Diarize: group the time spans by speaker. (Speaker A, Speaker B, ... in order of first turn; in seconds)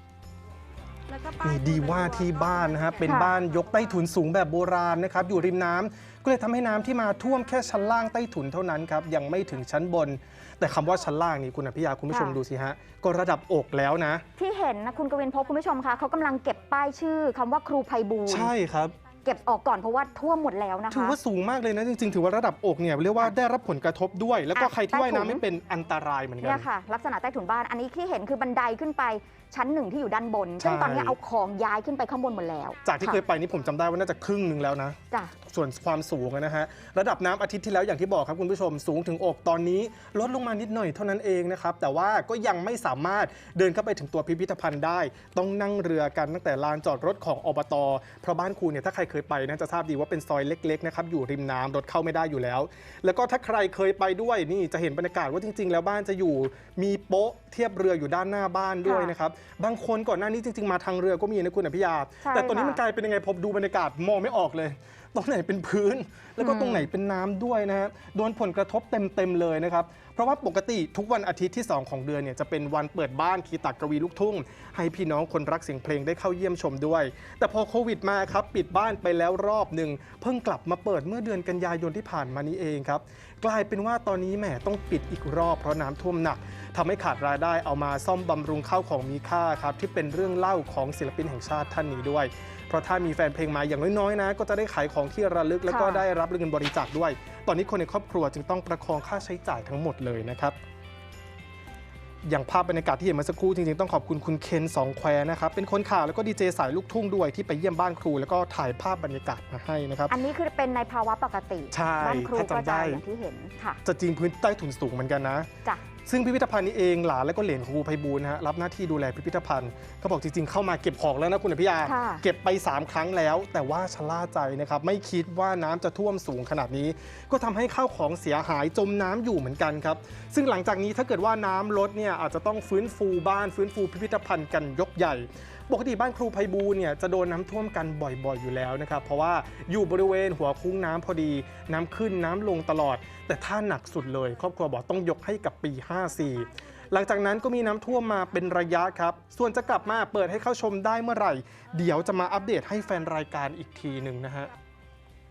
Speaker A: 1.1-4.0
Speaker B: 1.4-14.2, 18.3-18.9, 20.9-26.7, 30.6-31.2, 32.8-100.6, 102.2-110.2, 111.7-113.0, 113.8-115.5, 116.0-154.5
Speaker C: 3.0-3.3, 12.1-12.4, 14.4-18.5, 19.2-21.2, 24.5-25.4, 26.4-33.2, 58.8-59.1, 62.2-62.8, 66.4-66.9, 95.7-96.0, 110.1-113.8, 121.8-122.2